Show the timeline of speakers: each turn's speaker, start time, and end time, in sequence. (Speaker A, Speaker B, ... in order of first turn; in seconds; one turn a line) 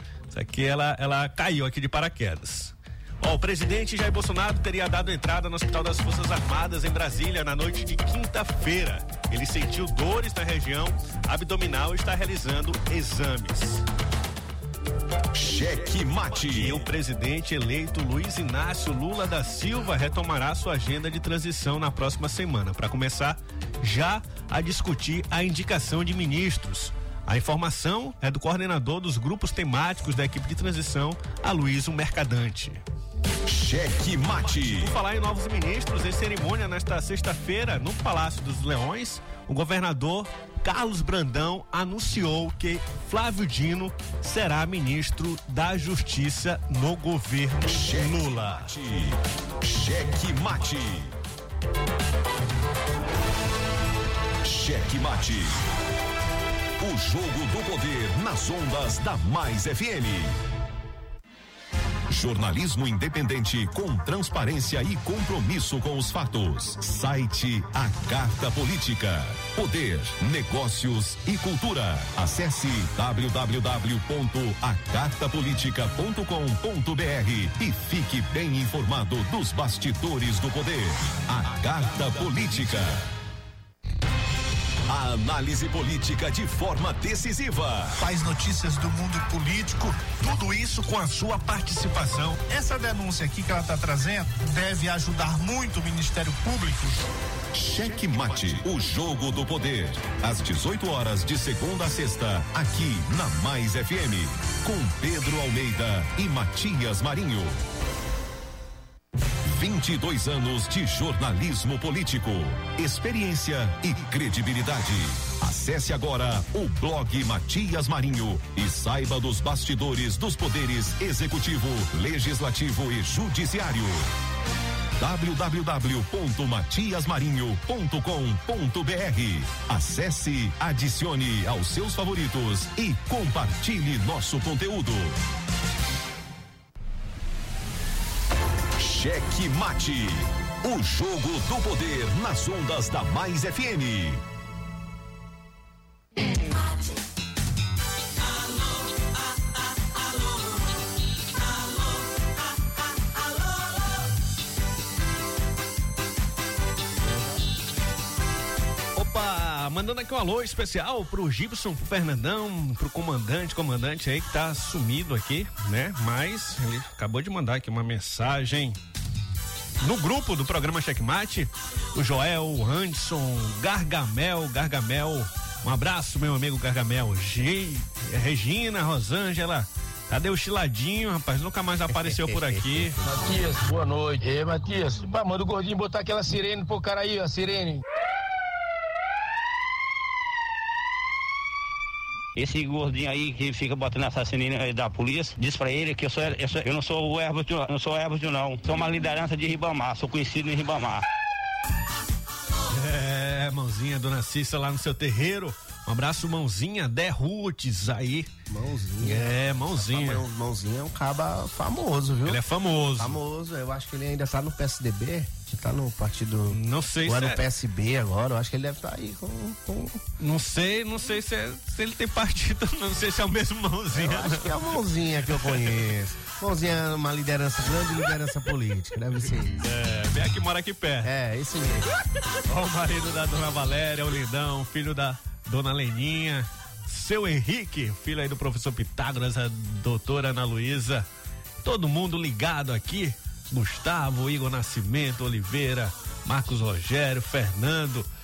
Speaker A: 0.3-13.8
Speaker B: 15.3-16.9
Speaker A: 16.4-32.8
Speaker B: 33.5-34.9
Speaker A: 34.6-48.7
Speaker B: 47.6-51.1
Speaker B: 54.4-55.6
Speaker B: 56.8-60.4
Speaker B: 62.1-83.0
Speaker B: 84.9-88.0
Speaker C: 88.0-90.9
Speaker A: 90.2-92.4
Speaker C: 92.5-97.1
Speaker B: 97.5-107.6
Speaker B: 109.4-124.1
Speaker B: 125.0-135.2
Speaker B: 138.8-144.2
Speaker D: 157.0-157.4
Speaker A: 158.9-168.8
Speaker A: 169.8-183.0
Speaker D: 181.9-182.9
Speaker E: 183.0-187.8
Speaker F: 192.4-201.0
Speaker A: 202.7-208.3
Speaker D: 208.5-212.4
Speaker A: 209.0-210.2
Speaker A: 212.3-213.2
Speaker D: 213.0-220.0
Speaker A: 216.5-217.4
Speaker A: 220.2-225.8
Speaker D: 223.9-229.7
Speaker A: 229.6-231.1
Speaker D: 231.0-231.9
Speaker A: 232.5-241.1
Speaker A: 241.6-248.1